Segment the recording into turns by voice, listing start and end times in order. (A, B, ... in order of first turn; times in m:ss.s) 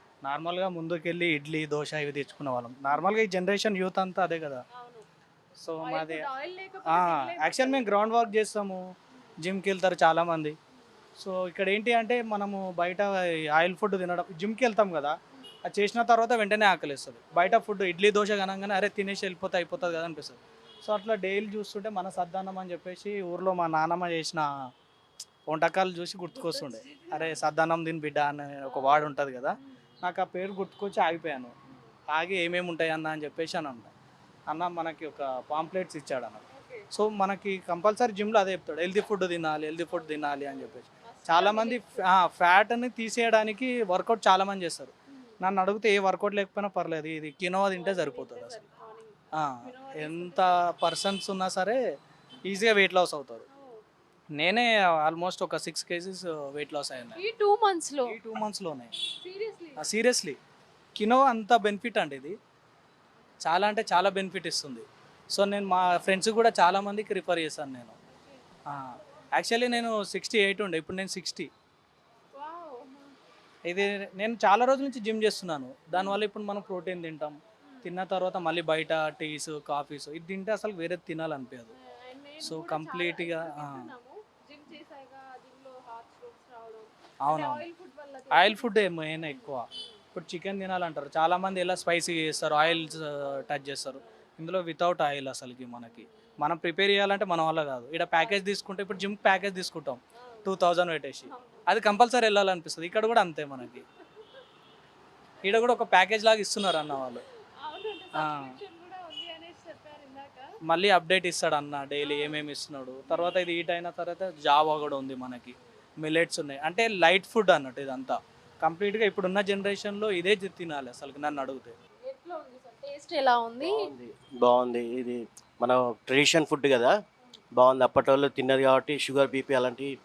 0:00.2-0:04.6 A
0:04.8-0:05.1 B
0:05.6-0:06.3 A
0:05.8-0:08.0 B
0:06.9-0:08.8 A
0:09.4-0:10.5 A
0:11.2-0:15.2 A
0:15.7-0:24.4 A
0:25.5-0:31.5 A
0:26.3-0:27.5 B
0:28.6-0:29.1 B
0:32.1-0:33.9 A
0:34.5-0:36.4 A
0:36.5-0:36.9 B
0:36.9-0:48.6 A
0:40.0-0:42.0 B
0:47.7-0:50.6 B
0:49.4-0:51.8 A
0:52.5-0:53.4 A
0:53.5-0:53.8 B
0:54.4-0:57.2 A
0:57.2-0:58.2 B
0:58.1-0:58.9 A
0:59.1-0:59.9 B
0:59.8-1:00.4 A
1:01.0-1:02.4 A
1:03.4-1:07.9 A
1:08.2-1:08.4 B
1:08.7-1:11.5 A
1:12.4-1:13.2 B
1:13.7-1:21.7 A
1:15.9-1:16.2 B
1:21.7-1:30.0 B
1:22.4-1:23.9 A
1:27.2-1:27.6 A
1:28.3-1:43.8 A
1:32.6-1:34.2 B
1:35.8-1:36.3 B
1:38.2-1:38.4 B
1:40.2-1:40.5 B
1:41.3-1:41.7 B
1:43.6-1:44.4 B
1:45.4-1:47.2 A
1:47.6-1:50.5 B
1:48.2-1:48.6 A
1:50.7-2:01.7 A
1:52.0-1:52.5 B
1:53.1-1:53.4 B
2:02.0-2:03.9 B
2:03.6-2:06.9 C
2:07.6-2:09.9 C